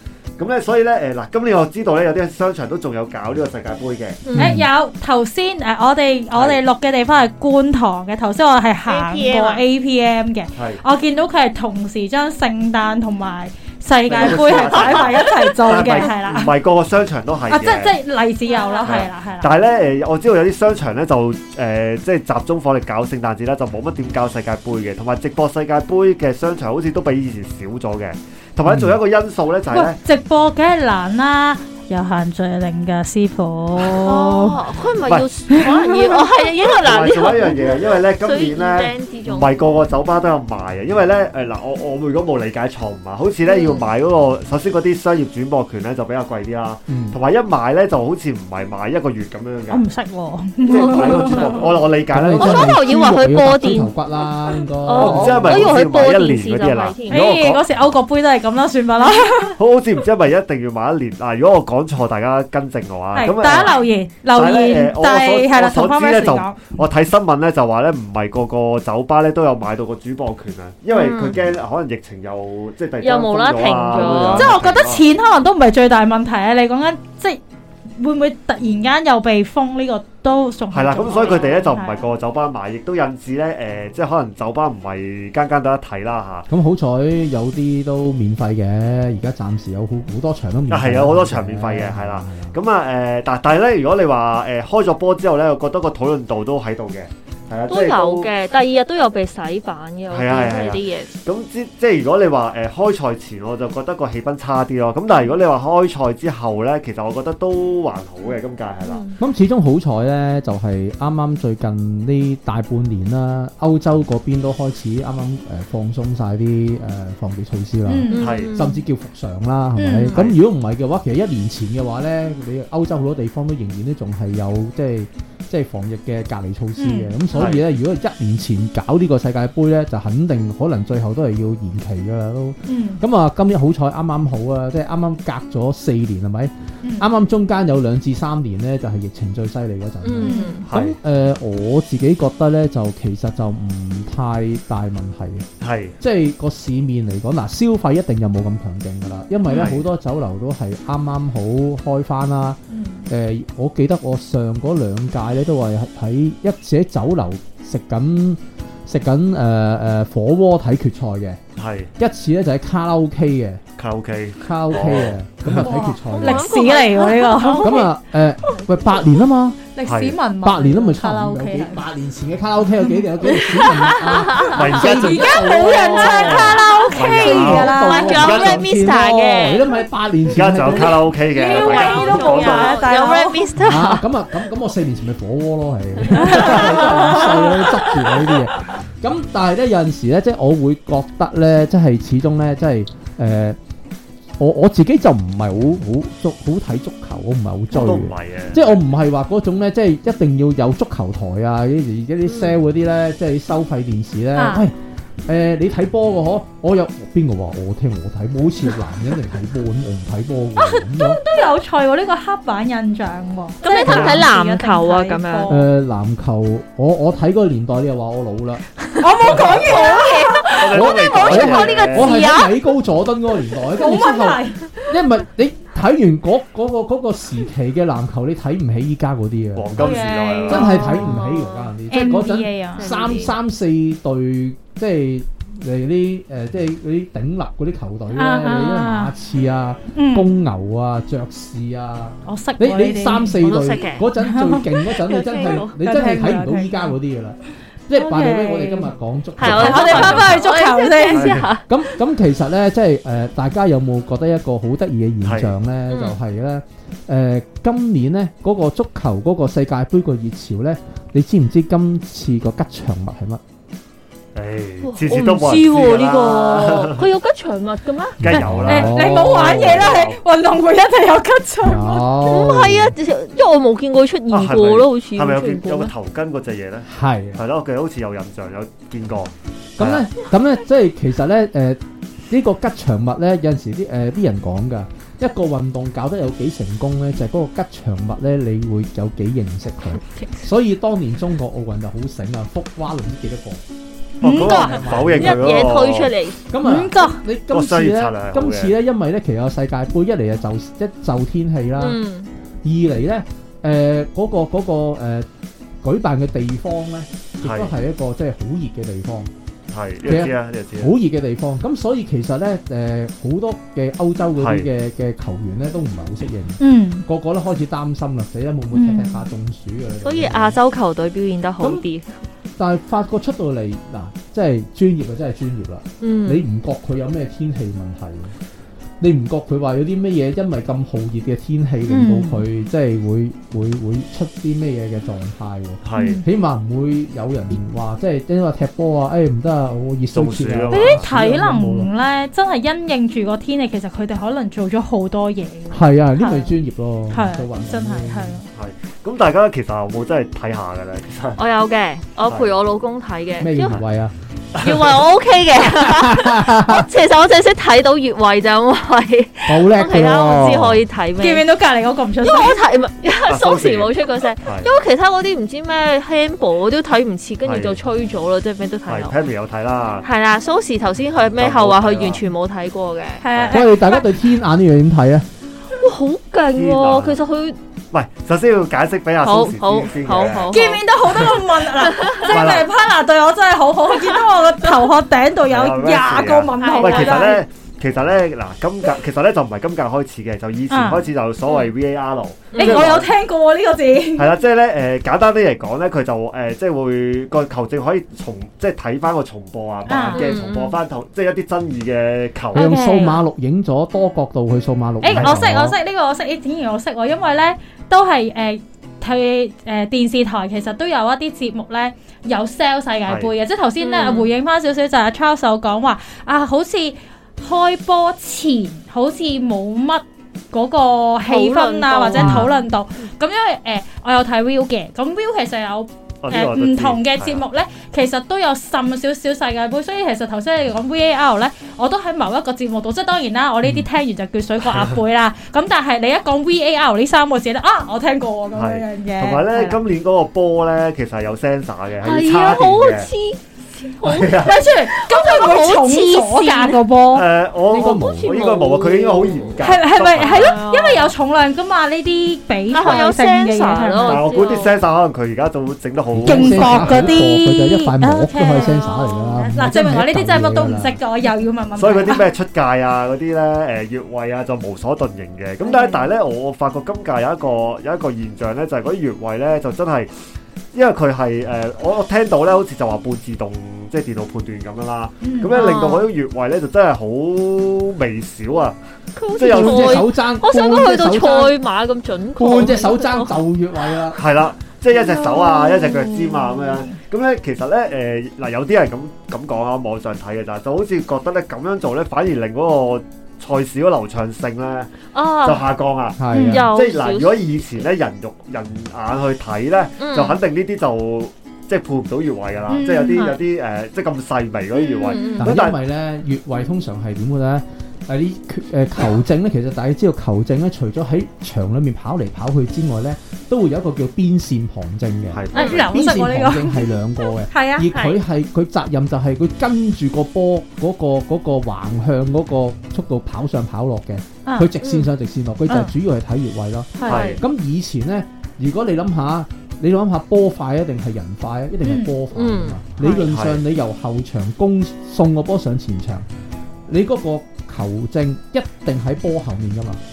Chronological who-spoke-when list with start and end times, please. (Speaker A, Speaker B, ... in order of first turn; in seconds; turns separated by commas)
Speaker A: 0.4-4.2, Speaker B: 4.3-4.6, Speaker C: 4.3-16.5, Speaker D: 4.4-4.7, Speaker A: 6.3-6.6, Speaker B: 8.9-9.6, Speaker A: 10.6-10.8, Speaker A: 14.1-17.9, Speaker B: 14.2-15.2, Speaker C: 17.5-19.6, Speaker B: 18.5-19.0, Speaker A: 18.8-30.0, Speaker D: 28.7-29.0, Speaker C: 29.7-34.6, Speaker B: 34.0-39.5, Speaker A: 35.0-35.3, Speaker C: 35.5-36.2, Speaker A: 36.8-49.8, Speaker B: 43.5-43.9, Speaker D: 46.9-47.2, Speaker C: 49.7-51.8, Speaker A: 50.6-52.8, Speaker B: 50.7-53.9, Speaker D: 52.1-55.7, Speaker B: 54.9-57.2, Speaker A: 54.9-57.6, Speaker C: 57.1-59.6, Speaker A: 59.6-63.8, Speaker C: 63.1-66.6, Speaker B: 63.5-63.9, Speaker A: 64.3-75.0, Speaker B: 70.9-71.4, Speaker B: 73.0-74.6, Speaker C: 74.3-77.4, Speaker C: 78.0-82.1, Speaker A: 80.7-86.5, Speaker D: 86.5-92.6, Speaker A: 90.7-98.3, Speaker B: 97.7-101.2, Speaker A: 100.1-109.0, Speaker B: 108.8-109.2, Speaker D: 109.2-145.5, Speaker C: 117.9-118.2, Speaker B: 118.1-118.8, Speaker A: 118.1-118.5, Speaker C: 119.8-120.1, Speaker C: 126.8-127.1, Speaker A: 127.3-127.7, Speaker C: 132.7-133.0, Speaker C: 136.8-137.1, Speaker B: 140.0-140.7, Speaker C: 140.2-140.6, Speaker A: 140.7-141.0, Speaker A: 145.6-146.0, Speaker D: 146.0-161.4, Speaker A: 149.5-149.8, Speaker C: 152.7-153.1, Speaker A: 161.6-161.9, Speaker D: 162.0-163.6, Speaker A: 163.8-165.7, Speaker D: 164.4-166.5, Speaker C: 165.5-167.8, Speaker B: 166.1-169.1, Speaker D: 167.6-169.6, Speaker C: 169.7-171.8, Speaker A: 169.8-170.2, Speaker D: 170.4-181.1, Speaker C: 172.8-173.1, Speaker B: 173.2-174.7, Speaker A: 174.6-177.8, Speaker C: 174.7-178.6, Speaker B: 177.8-179.7, Speaker A: 180.3-182.9, Speaker C: 181.3-183.5, Speaker B: 181.3-184.0, Speaker D: 183.6-193.6, Speaker C: 186.1-187.7, Speaker B: 186.2-187.6, Speaker D: 194.4-211.2, Speaker A: 197.7-198.8, Speaker B: 202.3-202.5, Speaker C: 204.4-204.7, Speaker C: 210.6-215.7, Speaker B: 213.6-215.5, Speaker D: 213.8-214.3, Speaker D: 215.5-218.6, Speaker C: 219.0-220.8, Speaker B: 219.2-222.6, Speaker A: 219.3-219.8, Speaker A: 220.5-222.2, Speaker D: 220.7-247.4, Speaker C: 223.7-224.7, Speaker A: 229.6-230.8, Speaker C: 229.8-231.2, Speaker B: 230.6-231.7, Speaker C: 231.9-232.9, Speaker B: 232.8-233.3, Speaker C: 238.1-239.1, Speaker C: 239.9-240.3, Speaker C: 242.3-243.4, Speaker B: 243.4-244.1, Speaker C: 244.2-244.7, Speaker B: 244.9-245.7, Speaker C: 245.8-246.9, Speaker D: 247.9-250.5, Speaker C: 247.9-248.9, Speaker B: 249.4-251.9, Speaker A: 249.4-250.2, Speaker C: 249.5-251.4, Speaker A: 251.1-251.5, Speaker D: 251.3-263.4, Speaker A: 255.2-255.5, Speaker B: 255.9-256.2, Speaker A: 264.4-267.0, Speaker B: 264.8-268.4, Speaker D: 268.2-269.9, Speaker A: 268.2-270.2, Speaker C: 268.4-272.1, Speaker D: 271.6-273.0, Speaker B: 272.2-275.9, Speaker A: 274.3-280.1, Speaker D: 276.9-277.4, Speaker D: 279.8-293.6, Speaker A: 294.2-296.1, Speaker C: 294.2-294.8, Speaker D: 294.3-295.7, Speaker B: 295.1-296.4, Speaker D: 296.5-302.0, Speaker C: 296.6-297.2, Speaker A: 297.5-298.7, Speaker B: 301.8-302.3, Speaker D: 302.6-305.3, Speaker D: 305.8-309.3, Speaker A: 307.4-307.7, Speaker A: 309.7-310.9, Speaker D: 310.0-320.6, Speaker A: 314.4-314.7, Speaker C: 316.6-317.1, Speaker C: 318.7-319.2, Speaker B: 320.0-322.2, Speaker D: 322.6-328.4, Speaker B: 326.0-326.4, Speaker D: 329.0-341.9, Speaker C: 331.9-332.4, Speaker A: 335.8-336.2, Speaker C: 336.0-336.2, Speaker A: 340.1-341.1, Speaker C: 340.7-346.6, Speaker D: 345.7-348.4, Speaker C: 347.1-348.5, Speaker A: 348.5-351.4, Speaker B: 351.4-353.8, Speaker A: 352.2-352.6, Speaker D: 353.4-354.1, Speaker B: 354.6-361.5, Speaker D: 355.6-356.9, Speaker D: 359.5-360.8, Speaker C: 361.2-362.6, Speaker B: 362.2-369.1, Speaker A: 363.3-364.7, Speaker A: 367.4-367.8, Speaker A: 368.9-370.1, Speaker B: 370.0-373.2, Speaker A: 371.4-372.2, Speaker C: 373.2-374.1, Speaker A: 373.3-373.6, Speaker D: 373.5-375.3, Speaker B: 375.7-377.6, Speaker A: 376.5-377.2, Speaker A: 377.9-381.3, Speaker B: 379.2-382.4, Speaker C: 380.5-387.4, Speaker A: 382.3-382.7, Speaker A: 385.5-393.1, Speaker B: 386.6-387.4, Speaker C: 390.7-391.1, Speaker B: 392.5-392.9, Speaker C: 392.6-394.3, Speaker A: 394.2-402.7, Speaker C: 399.9-400.3, Speaker B: 400.1-400.8, Speaker C: 402.5-403.2, Speaker D: 402.5-405.8, Speaker C: 405.0-439.8, Speaker A: 405.1-405.4, Speaker A: 413.1-413.3, Speaker B: 413.8-414.3, Speaker B: 421.3-422.6, Speaker D: 422.2-422.5, Speaker A: 426.2-427.4, Speaker A: 438.5-443.1, Speaker B: 442.0-446.8, Speaker A: 444.0-444.6, Speaker C: 444.4-447.3, Speaker A: 447.1-450.6, Speaker D: 447.7-448.4, Speaker B: 447.7-451.1, Speaker C: 449.6-454.3, Speaker B: 452.7-454.8, Speaker A: 454.1-457.2, Speaker D: 456.1-461.0, Speaker C: 456.3-462.3, Speaker B: 458.6-459.4, Speaker A: 461.8-470.1, Speaker C: 465.6-466.1, Speaker A: 470.7-478.8, Speaker C: 475.2-475.6, Speaker B: 475.5-476.1, Speaker B: 479.2-483.4, Speaker A: 479.3-480.1, Speaker D: 479.4-481.5, Speaker D: 482.4-484.2, Speaker A: 484.1-496.2, Speaker B: 485.0-486.4, Speaker C: 486.5-486.8, Speaker B: 495.1-495.7, Speaker D: 496.2-496.7, Speaker B: 496.3-497.5, Speaker C: 496.3-496.7, Speaker A: 496.7-505.8, Speaker B: 500.0-500.4, Speaker C: 502.7-503.3, Speaker B: 504.8-505.6, Speaker D: 505.4-536.3, Speaker A: 515.3-515.9, Speaker C: 515.5-517.9, Speaker B: 515.5-515.8, Speaker B: 517.9-518.2, Speaker C: 524.5-524.7, Speaker B: 524.8-525.1, Speaker C: 525.7-525.9, Speaker C: 527.0-527.3, Speaker B: 527.0-527.4, Speaker A: 527.0-527.4, Speaker C: 531.8-532.1, Speaker B: 532.3-532.8, Speaker C: 533.0-533.3, Speaker A: 533.1-533.6, Speaker D: 536.9-540.0